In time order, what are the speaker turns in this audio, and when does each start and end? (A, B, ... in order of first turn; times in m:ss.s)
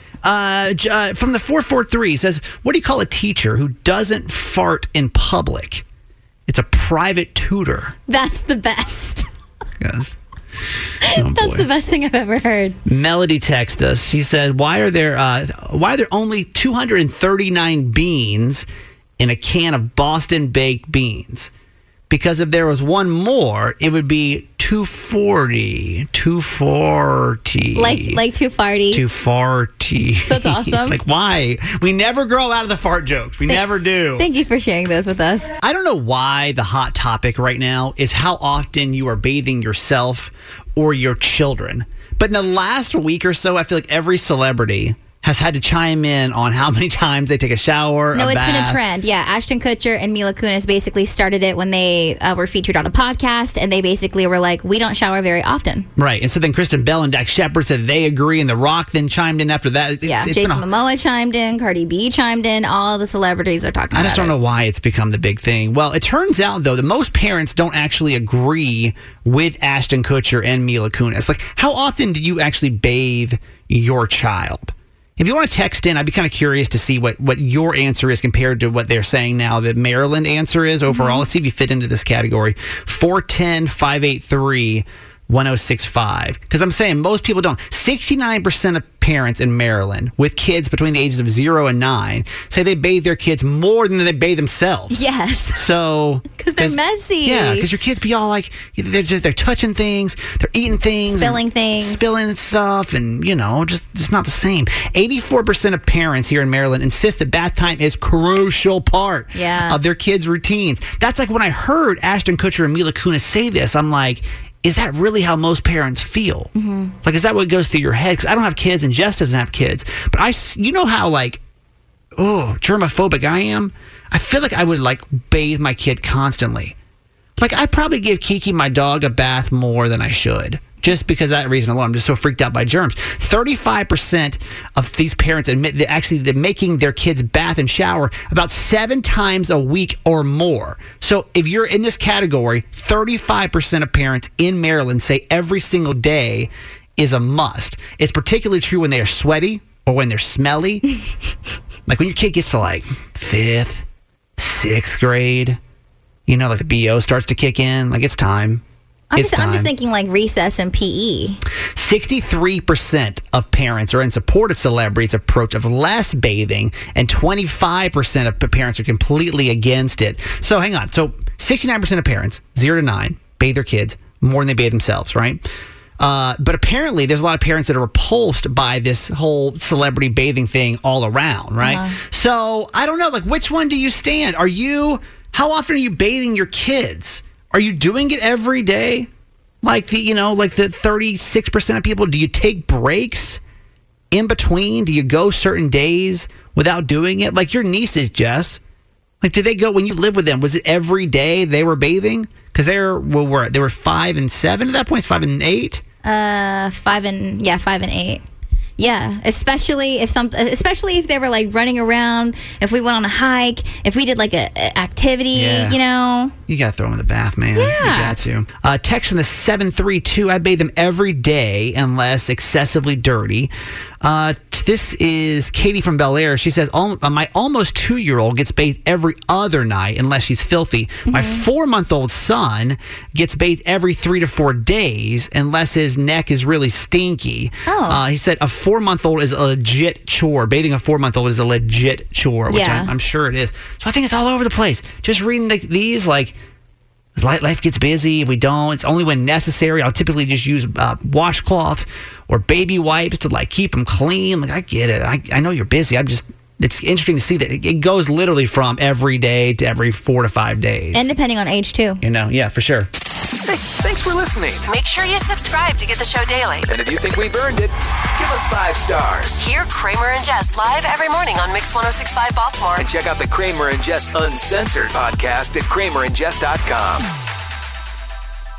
0:00.2-0:05.8 A
0:06.5-0:08.0 A
0:08.1-0:09.3 B
0:09.8-0:10.2 A
0:11.0-0:12.8 B
0:11.1-0:11.7 A
0:12.9-0:18.7 A
0:19.2-0:21.5 A
0:22.1-0:28.2 A
0:27.8-0:29.0 B
0:28.9-0:34.3 A
0:30.3-0:31.0 B
0:34.2-0:35.5 B
0:35.6-0:48.8 A
0:48.1-0:55.9 B
0:56.0-1:00.6 A
1:00.0-1:04.3 B
1:03.9-1:35.0 A
1:20.9-1:21.3 B
1:34.9-1:35.6 B
1:35.6-1:56.5 A
1:36.4-1:37.7 B
1:41.1-1:42.1 B
1:49.3-1:49.8 B
1:56.6-1:57.0 B
1:57.0-2:01.4 A
2:02.2-2:06.8 A
2:07.4-2:30.8 A
2:31.9-2:33.8 A
2:34.4-2:35.6 A
2:36.3-2:38.6 A
2:39.1-2:41.4 B
2:39.2-2:39.7 A
2:41.8-2:55.4 A
2:56.0-3:09.1 A
3:01.6-3:02.0 B
3:09.6-3:13.4 A
3:14.1-3:18.6 A
3:19.2-3:25.8 A
3:26.0-3:28.2 B
3:28.8-3:36.3 B
3:35.3-3:35.8 A
3:36.5-3:43.5 A
3:37.6-3:38.2 B
3:44.0-4:06.4 A
3:51.1-3:51.4 B
3:57.7-3:58.0 B
4:02.5-4:02.9 B
4:07.2-4:21.1 A
4:20.9-4:22.0 B
4:22.0-4:22.9 A
4:23.4-4:24.7 C
4:24.7-4:26.7 D
4:26.7-4:29.4 C
4:29.4-4:32.9 D
4:32.8-4:37.1 C